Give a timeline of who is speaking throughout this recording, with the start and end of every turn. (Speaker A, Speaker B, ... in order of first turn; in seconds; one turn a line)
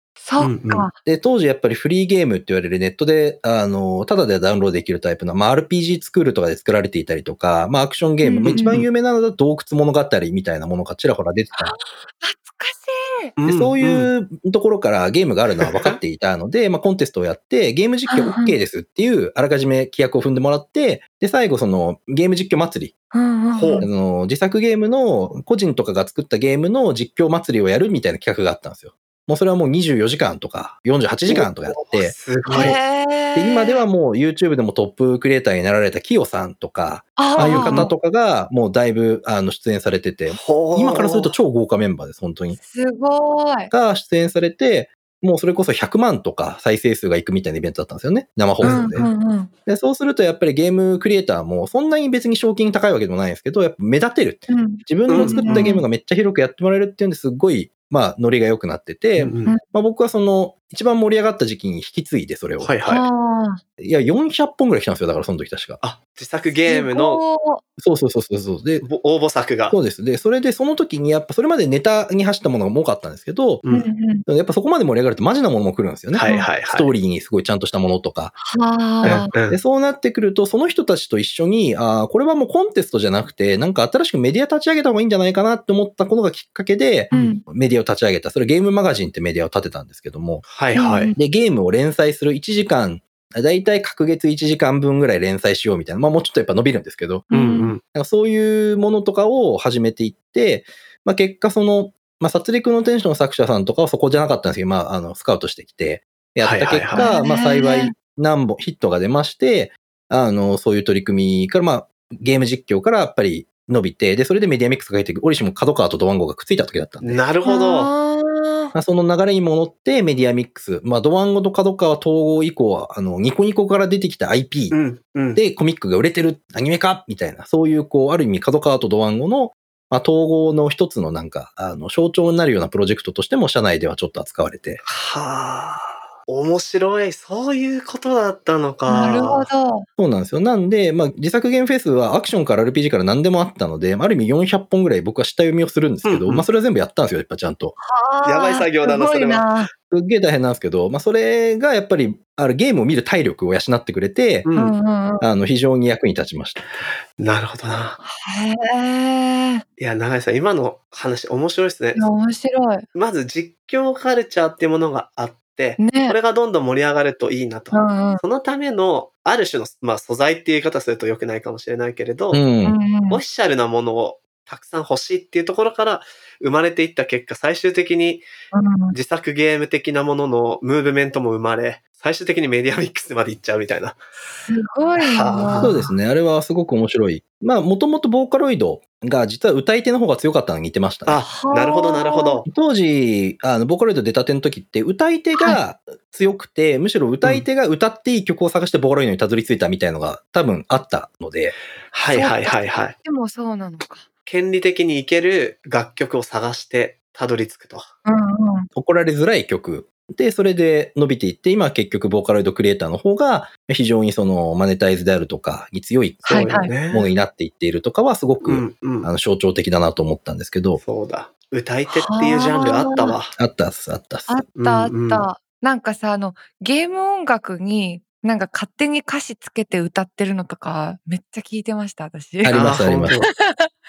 Speaker A: 0.2-0.9
Speaker B: 0.4-0.9
Speaker C: 1.0-11.7
Speaker A: 8.2-8.8
Speaker B: 8.4-8.9
Speaker A: 11.6-13.3
Speaker B: 13.4-14.1
Speaker C: 13.5-22.9
Speaker B: 15.6-16.0
Speaker A: 18.1-18.5
Speaker A: 23.1-23.9
Speaker B: 23.5-23.9
Speaker C: 23.8-32.8
Speaker B: 31.3-32.8
Speaker A: 32.5-33.9
Speaker C: 33.3-42.6
Speaker A: 37.2-37.9
Speaker B: 37.4-37.9
Speaker B: 40.3-41.3
Speaker A: 42.5-43.7
Speaker C: 43.7-49.1
Speaker B: 48.6-49.1
Speaker A: 48.6-49.5
Speaker C: 49.6-62.7
Speaker A: 54.5-55.8
Speaker B: 55.1-55.7
Speaker B: 59.2-59.5
Speaker B: 62.6-63.0
Speaker A: 62.9-63.6
Speaker C: 63.8-65.8
Speaker B: 65.8-67.2
Speaker A: 66.5-67.6
Speaker C: 67.8-68.8
Speaker B: 68.8-69.8
Speaker C: 69.7-73.6
Speaker B: 73.6-73.9
Speaker A: 73.7-74.2
Speaker C: 74.2-78.3
Speaker B: 76.1-76.9
Speaker A: 78.4-79.3
Speaker C: 79.0-90.5
Speaker B: 79.0-79.6
Speaker B: 87.1-87.4
Speaker A: 87.1-87.4
Speaker B: 90.5-91.1
Speaker A: 90.7-91.2
Speaker C: 91.2-97.3
Speaker B: 97.3-97.8
Speaker A: 97.3-97.7
Speaker C: 97.8-117.2
Speaker B: 106.4-107.1
Speaker A: 106.9-107.9
Speaker B: 117.0-117.9
Speaker A: 117.4-118.7
Speaker C: 118.7-124.8
Speaker B: 124.7-125.4
Speaker C: 125.3-134.8
Speaker B: 134.8-139.5
Speaker A: 138.9-139.8
Speaker C: 140.0-147.8
Speaker B: 146.0-146.4
Speaker A: 147.8-149.7
Speaker B: 148.2-149.5
Speaker C: 149.9-154.5
Speaker B: 154.4-154.8
Speaker A: 154.5-155.3
Speaker C: 155.2-156.7
Speaker B: 157.2-158.0
Speaker A: 158.0-159.6
Speaker B: 159.8-162.1
Speaker A: 161.9-162.8
Speaker B: 162.9-172.4
Speaker A: 165.8-166.2
Speaker A: 167.7-168.2
Speaker C: 172.3-172.8
Speaker A: 172.6-173.2
Speaker B: 173.1-178.2
Speaker A: 178.5-178.9
Speaker B: 178.9-184.1
Speaker A: 184.5-185.8
Speaker B: 185.0-185.9
Speaker C: 185.6-191.2
Speaker B: 191.1-192.4
Speaker A: 191.2-192.4
Speaker C: 192.4-201.5
Speaker A: 195.3-195.6
Speaker B: 201.9-202.9
Speaker A: 202.1-204.1
Speaker B: 204.2-207.9
Speaker A: 208.1-208.7
Speaker C: 208.7-220.8
Speaker B: 216.2-217.1
Speaker A: 216.3-216.7
Speaker B: 218.4-219.1
Speaker B: 220.8-223.3
Speaker A: 221.9-223.1
Speaker C: 223.3-224.4
Speaker A: 224.3-233.7
Speaker B: 224.6-225.2
Speaker C: 232.4-233.1
Speaker B: 232.5-233.3